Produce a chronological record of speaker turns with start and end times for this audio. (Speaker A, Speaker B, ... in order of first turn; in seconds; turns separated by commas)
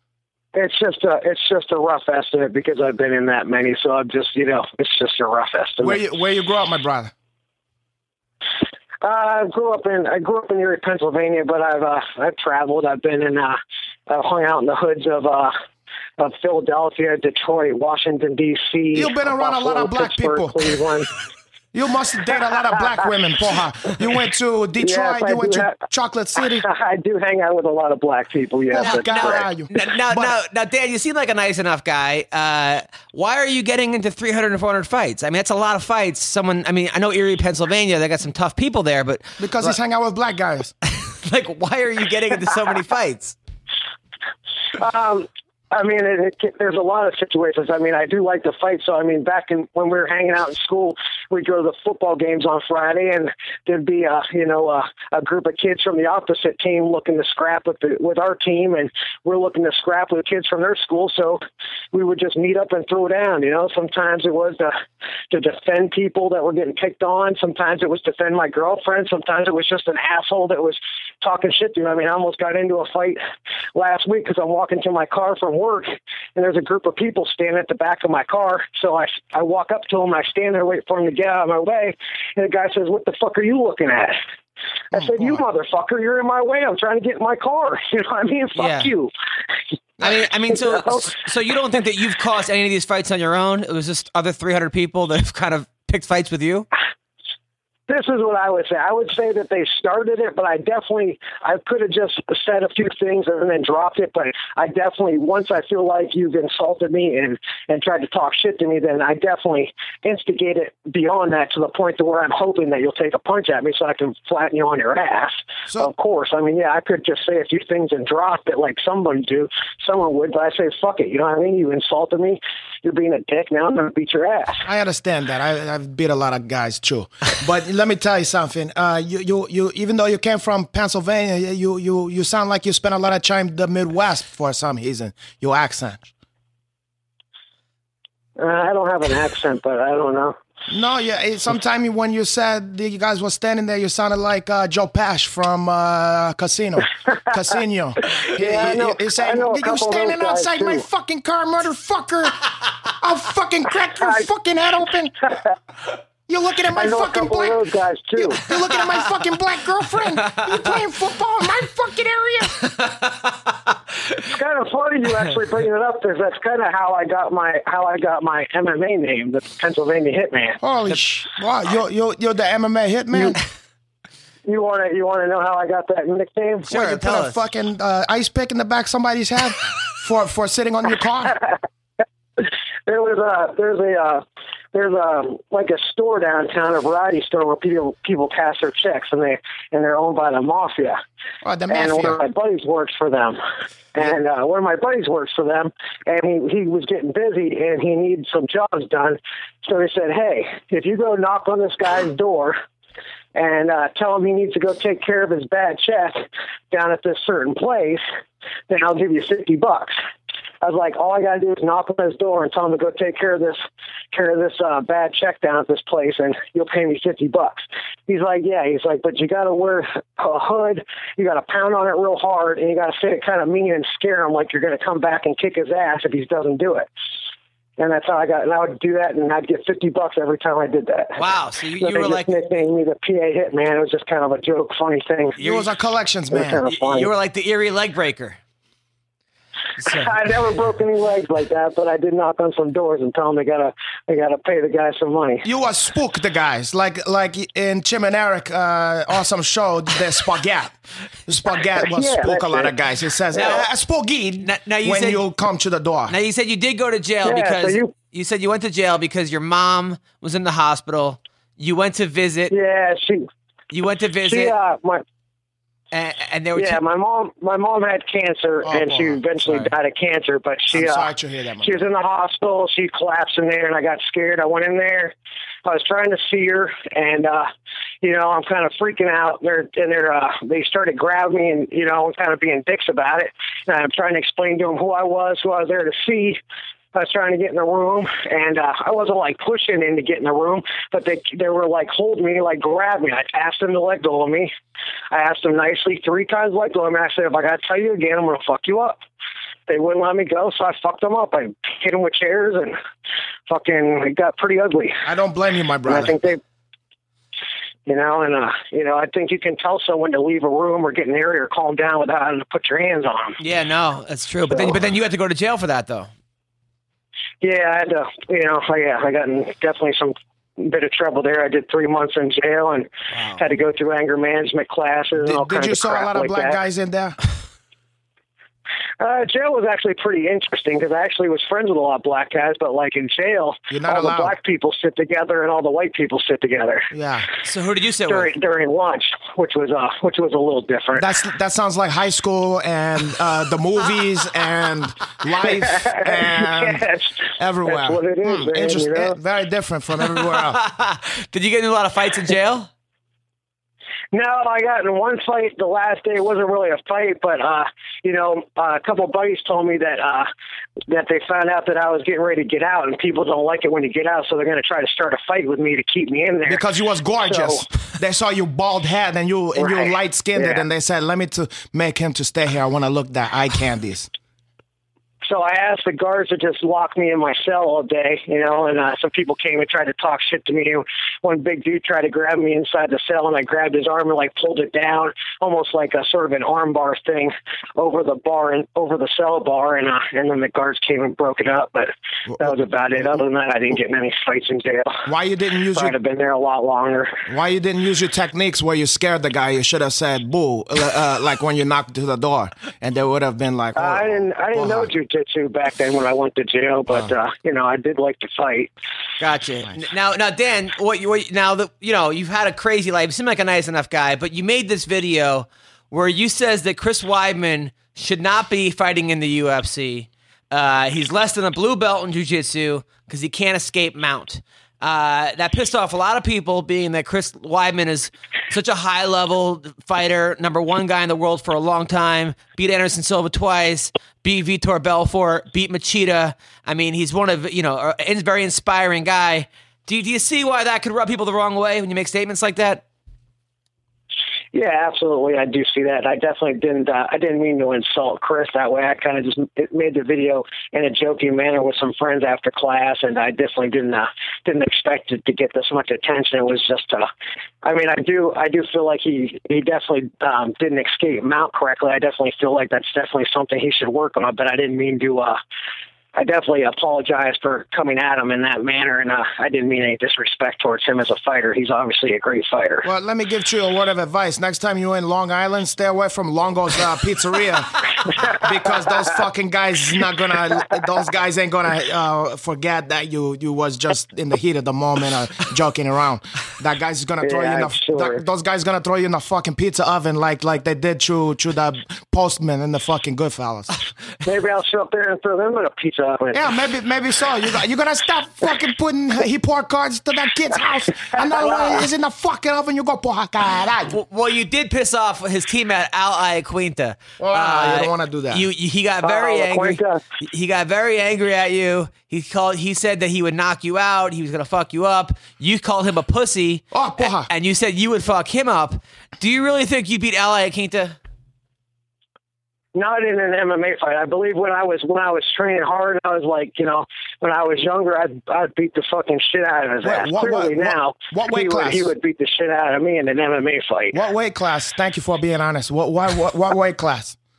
Speaker A: 0.5-6.0, Speaker B: 5.8-7.1, Speaker A: 9.0-15.5, Speaker A: 16.2-21.1, Speaker B: 18.9-20.7, Speaker B: 21.7-26.6, Speaker A: 24.8-25.8, Speaker A: 26.6-29.4, Speaker B: 28.7-30.3, Speaker C: 28.8-39.7, Speaker B: 39.4-40.7, Speaker C: 40.8-43.4, Speaker A: 44.8-61.4, Speaker A: 61.9-64.7, Speaker A: 65.3-73.2, Speaker A: 73.7-84.2, Speaker A: 84.9-89.1, Speaker B: 84.9-85.4, Speaker C: 88.5-88.9, Speaker C: 90.0-96.7, Speaker A: 90.5-91.2, Speaker A: 97.9-124.6, Speaker B: 124.6-136.1, Speaker A: 138.4-140.3, Speaker B: 140.7-155.1, Speaker A: 148.3-150.8, Speaker B: 156.3-157.6, Speaker A: 156.7-158.4, Speaker B: 158.2-162.6, Speaker C: 162.6-163.5, Speaker A: 164.2-170.6, Speaker B: 170.6-173.4, Speaker A: 174.4-176.7, Speaker B: 176.7-181.4, Speaker C: 176.7-177.4, Speaker A: 182.4-184.2, Speaker A: 184.7-191.0, Speaker B: 191.4-192.2, Speaker A: 191.7-193.4, Speaker A: 193.9-202.6, Speaker A: 203.3-208.0, Speaker A: 208.7-210.0, Speaker A: 210.6-213.6, Speaker A: 214.1-226.9, Speaker A: 227.8-231.2, Speaker C: 231.2-232.3, Speaker A: 231.8-235.4, Speaker B: 235.4-236.6, Speaker C: 235.4-235.6, Speaker A: 236.3-237.1, Speaker C: 236.6-238.4, Speaker C: 239.8-240.1, Speaker A: 239.8-245.4, Speaker B: 245.4-250.7, Speaker B: 251.2-256.1, Speaker A: 251.9-252.7, Speaker C: 254.4-255.2, Speaker C: 256.1-262.5, Speaker A: 257.2-257.9, Speaker A: 262.5-263.3, Speaker C: 263.7-264.5, Speaker A: 264.2-265.0, Speaker C: 265.9-266.8, Speaker A: 266.6-271.1, Speaker B: 268.6-269.7, Speaker B: 270.7-271.9, Speaker A: 271.6-275.1, Speaker A: 275.6-277.5, Speaker A: 278.0-286.4, Speaker A: 286.9-294.5, Speaker A: 295.1-299.0, Speaker A: 299.7-302.8, Speaker A: 303.5-305.0, Speaker B: 305.0-306.2, Speaker A: 305.9-306.4, Speaker A: 307.9-313.4, Speaker C: 313.4-316.1, Speaker A: 314.5-314.8, Speaker A: 317.4-326.6, Speaker C: 323.1-323.4, Speaker B: 325.2-327.2, Speaker A: 329.0-336.9, Speaker B: 333.7-334.3, Speaker B: 336.9-337.3, Speaker C: 337.4-338.3, Speaker A: 338.1-341.1, Speaker B: 340.9-350.6, Speaker A: 345.4-349.1, Speaker C: 350.2-352.7, Speaker A: 354.1-360.3, Speaker A: 360.9-366.6, Speaker B: 366.5-374.1, Speaker A: 367.2-367.7, Speaker A: 369.6-370.6, Speaker A: 375.2-395.1, Speaker B: 395.1-395.9, Speaker A: 395.7-397.2, Speaker B: 397.3-404.9, Speaker A: 403.7-408.7, Speaker C: 409.2-442.8, Speaker A: 444.5-457.1, Speaker A: 457.6-465.4, Speaker A: 466.1-472.9, Speaker B: 472.8-493.8, Speaker A: 487.2-488.2, Speaker A: 494.2-496.5, Speaker B: 496.3-504.0, Speaker C: 503.9-521.0, Speaker B: 507.2-508.4, Speaker A: 509.0-510.0, Speaker B: 516.7-517.3, Speaker A: 522.7-534.0, Speaker B: 529.8-531.9, Speaker B: 533.9-537.2